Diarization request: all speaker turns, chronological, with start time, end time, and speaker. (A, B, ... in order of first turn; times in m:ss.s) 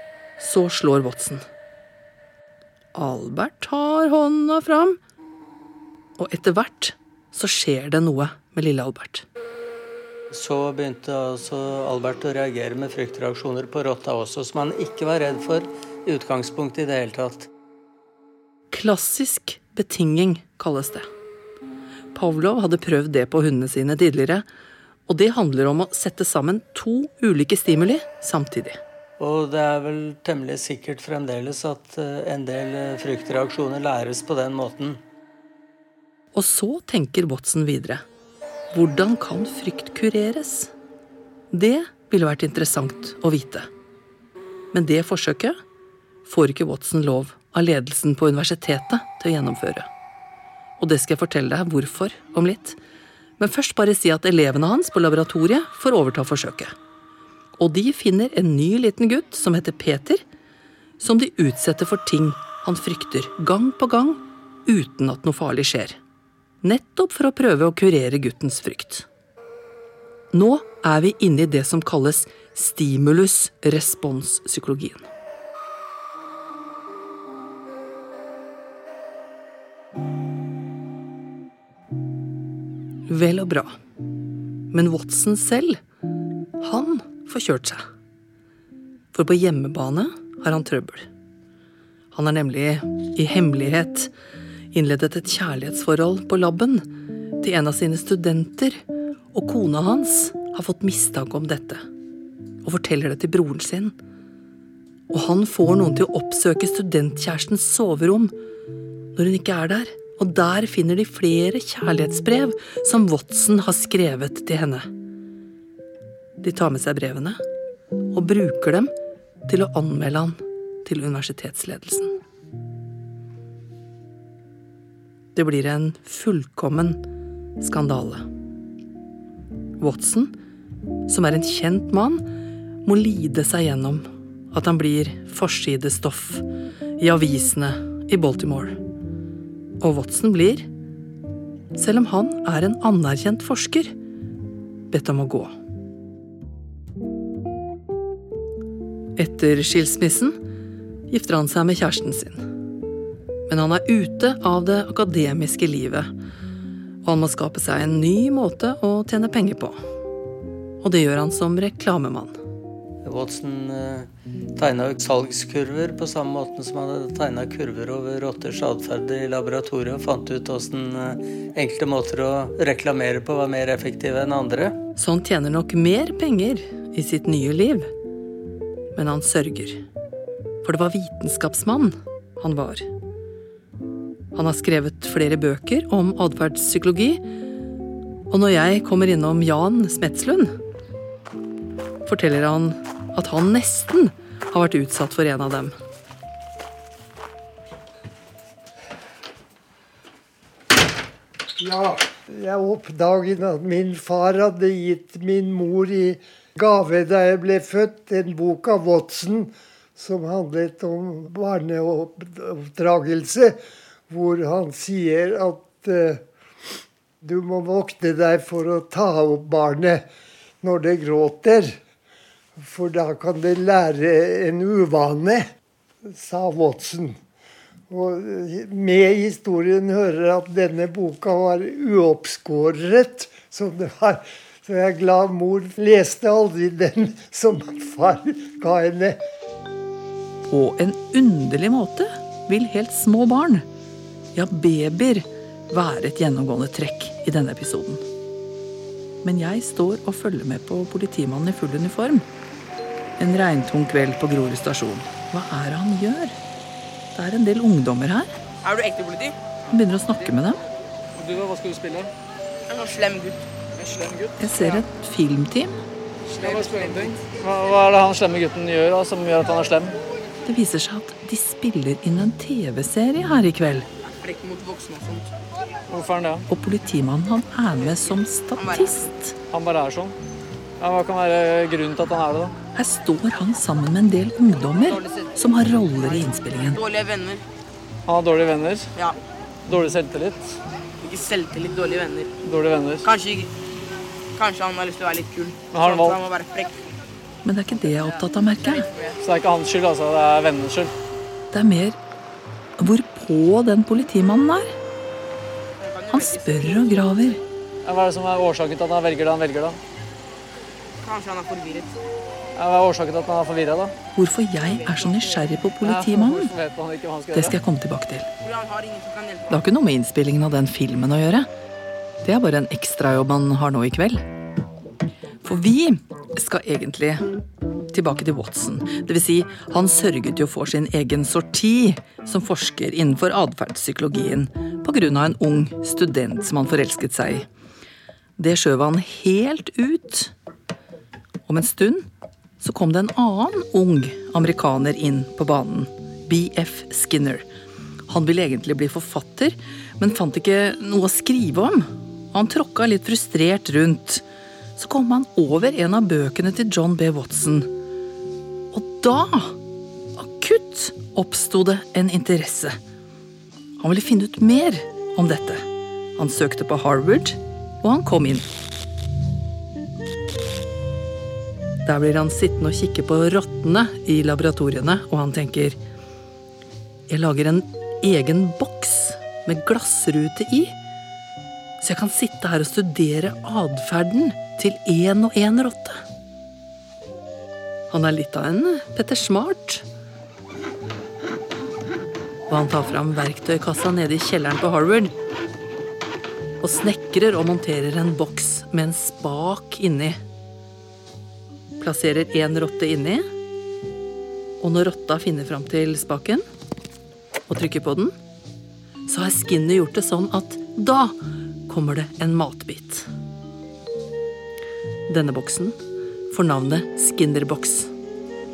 0:00.4-0:01.4 A
0:02.9-0:05.0 A
0:06.2-0:09.2 A
0:10.3-0:17.5 B
0:18.7-0:21.1 A
0:22.1-0:24.4 A
0:25.1-0:28.8 A
0:29.2-0:35.0 B
0:36.3-0:38.0 A
0:38.7-0:40.7 A
0:41.5-0:43.7 A
0:44.7-0:45.6 A
0:46.2-0:49.9 A
0:50.8-0:52.8 A
0:53.4-0:56.7 A
0:57.6-1:00.2 A
1:01.0-1:06.0 A
1:06.6-1:09.1 A
1:10.3-1:15.1 A
1:23.1-1:23.8 A
1:24.7-1:25.8 A
1:26.6-1:27.8 A
1:29.1-1:31.1 A
1:32.1-1:34.1 A
1:34.7-1:36.9 A
1:37.4-1:41.8 A
1:42.6-1:43.9 A
1:45.1-1:48.3 A
1:49.1-1:54.9 A
1:56.4-1:57.4 A
1:58.1-1:58.9 A
1:59.4-2:02.1 A
2:05.3-2:07.0 A
2:07.6-2:08.2 A
2:09.8-2:10.3 A
2:11.1-2:12.3 A
2:12.8-2:16.4 A
2:17.0-2:18.8 A
2:19.8-2:20.7 A
2:21.7-2:23.9 A
2:24.9-2:25.5 A
2:29.2-2:30.4 A
2:31.1-2:32.4 A
2:33.5-2:36.1 A
2:37.0-2:39.8 A
2:40.8-2:42.4 A
2:43.0-2:54.8 B
2:55.0-2:57.9 A
2:58.9-2:59.8 A
3:00.6-3:02.8 A
3:04.3-3:07.2 A
3:08.3-3:10.5 A
3:12.0-3:15.7 A
3:21.6-3:33.6 C
3:34.1-3:36.2 C
3:37.2-3:40.0 C
3:40.6-3:41.8 C
3:42.6-3:45.5 C
3:46.1-3:47.2 C
3:47.9-3:59.2 C
4:00.5-4:03.6 A
4:04.3-4:08.0 A
4:09.2-4:12.2 A
4:13.2-4:16.4 A
4:17.1-4:18.3 A
4:18.6-4:19.4 D
4:19.7-4:20.6 A
4:21.1-4:22.1 E
4:22.7-4:23.5 D
4:23.7-4:24.8 E
4:24.4-4:25.7 A
4:26.3-4:27.2 D
4:26.4-4:29.9 E
4:30.4-4:33.9 A
4:34.1-4:35.3 D
4:35.9-4:36.4 E
4:36.5-4:39.4 A
4:37.8-4:39.1 D
4:39.5-4:40.1 E
4:40.8-4:42.5 E
4:42.7-4:46.8 A
4:44.8-4:45.3 D
4:46.0-4:47.4 D
4:48.0-4:48.9 E
4:49.6-4:50.6 E
4:51.0-4:52.3 D
4:52.4-4:53.1 E
4:53.0-4:53.5 D
4:54.3-4:56.8 D
4:55.7-4:56.2 E
4:57.4-4:58.9 A
4:57.7-4:59.2 D
4:59.2-5:00.9 E
5:01.5-5:02.0 A
5:02.8-5:04.7 A
5:05.8-5:06.8 D
5:06.1-5:07.4 A
5:07.8-5:09.8 E
5:11.0-5:12.0 D
5:12.6-5:13.9 E
5:14.2-5:16.5 A
5:14.6-5:15.5 D
5:15.8-5:17.6 E
5:17.3-5:18.3 A
5:18.4-5:19.6 D
5:19.5-5:21.5 A
5:22.2-5:24.2 A
5:25.4-5:27.2 A
5:27.9-5:37.5 A
5:38.4-5:40.3 A
5:41.5-5:42.1 A
5:42.6-5:47.4 A
5:48.1-5:54.2 A
5:54.8-5:57.7 A
5:58.7-5:59.6 A
6:00.2-6:02.8 A
6:03.8-6:05.6 A
6:06.2-6:08.5 A
6:11.8-6:15.8 A
6:17.1-6:20.7 A
6:21.8-6:26.0 A
6:27.9-6:29.8 A
6:32.5-6:35.1 A
6:36.6-6:40.2 A
6:41.8-6:43.3 A
6:44.6-6:46.4 A
6:47.5-6:48.1 A
6:49.1-6:51.2 A
6:51.7-6:53.1 A
6:55.1-6:55.8 A
6:56.3-6:57.9 A